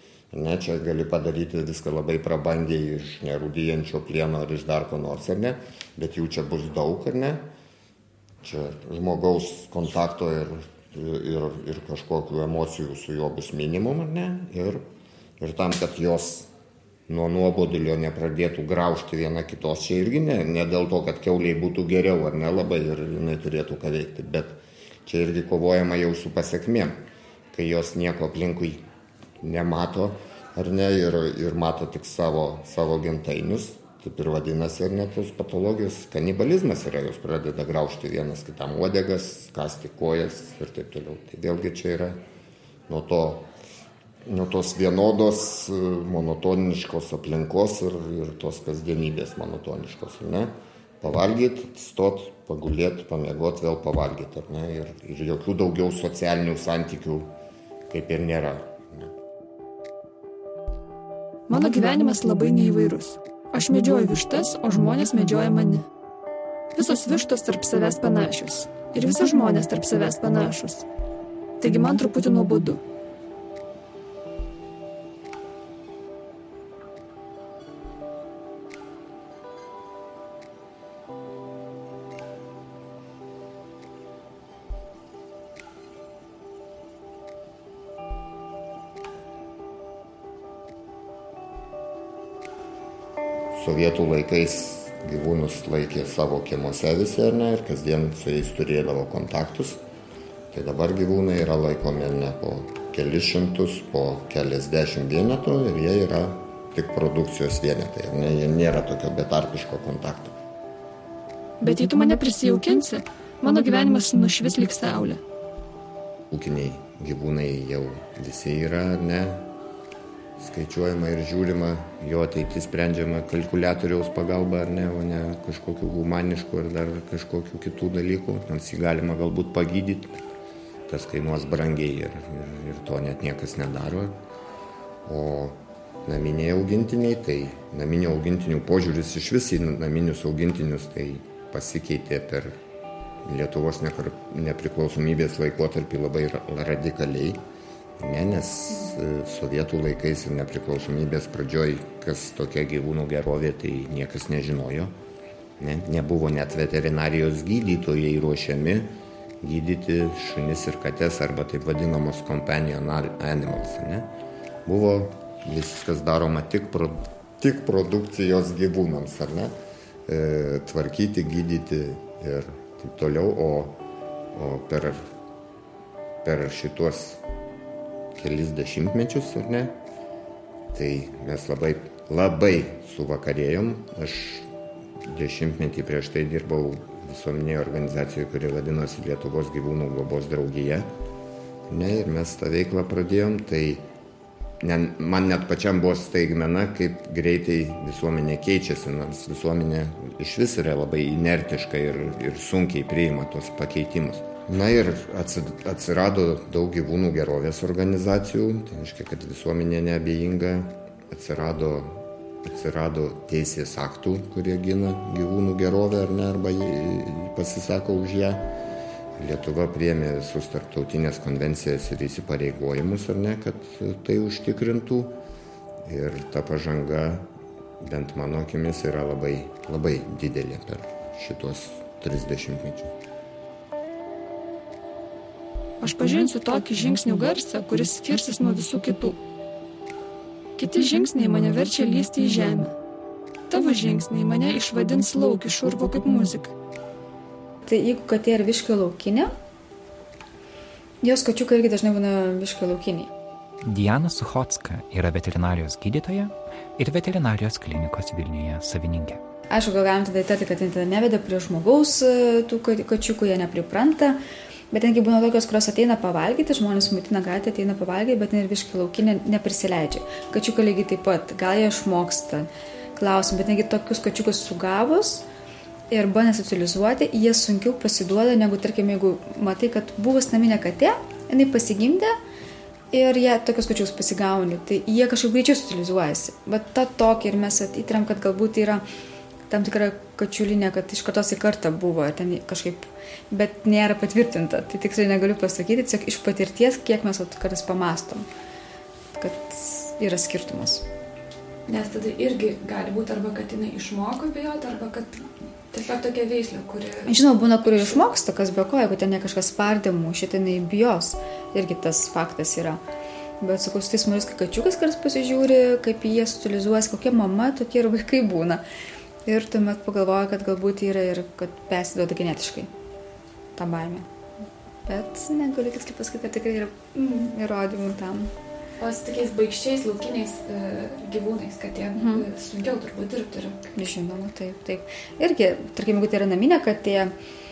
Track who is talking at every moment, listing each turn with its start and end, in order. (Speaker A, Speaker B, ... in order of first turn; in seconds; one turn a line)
Speaker A: 0.3-7.4
Speaker A: 8.4-14.8
Speaker A: 15.4-16.5
Speaker A: 17.1-27.0
Speaker A: 27.5-28.8
Speaker A: 29.4-42.2
Speaker A: 42.9-43.5
Speaker A: 44.2-57.3
Speaker A: 57.9-59.1
Speaker B: 61.5-65.8
Speaker B: 66.7-70.8
Speaker B: 71.6-72.8
Speaker A: 93.5-99.8
Speaker A: 100.5-110.3
Speaker B: 111.6-115.2
Speaker A: 116.3-119.5
Speaker A: 120.4-130.2
Speaker A: 130.9-134.2
Speaker A: 135.1-142.5
Speaker A: 143.2-147.4
Speaker A: 148.0-154.9
Speaker A: 155.6-158.9
Speaker A: 159.4-164.1
Speaker A: 164.7-169.5
Speaker A: 170.1-173.8
Speaker A: 174.3-175.0
Speaker A: 176.2-177.2
Speaker A: 178.2-179.8
Speaker A: 180.7-184.5
Speaker A: 185.0-190.9
Speaker A: 191.7-193.8
Speaker A: 194.6-218.5
Speaker A: 219.2-225.2
Speaker A: 225.8-227.2
Speaker A: 227.8-232.9
Speaker B: 235.8-239.2
Speaker B: 240.6-242.7
Speaker B: 243.5-246.5
Speaker C: 247.6-249.3
Speaker C: 251.0-253.1
Speaker D: 253.6-259.2
Speaker C: 259.5-275.2
Speaker C: 275.9-282.1
Speaker C: 282.9-288.8
Speaker C: 289.5-298.3
Speaker C: 299.1-300.9
Speaker E: 301.7-307.1
Speaker C: 307.1-312.8
Speaker C: 313.4-318.6
Speaker C: 319.2-322.7
Speaker C: 323.6-324.1
Speaker C: 324.9-328.3
Speaker E: 328.8-333.6
Speaker C: 331.9-332.2
Speaker C: 333.7-337.1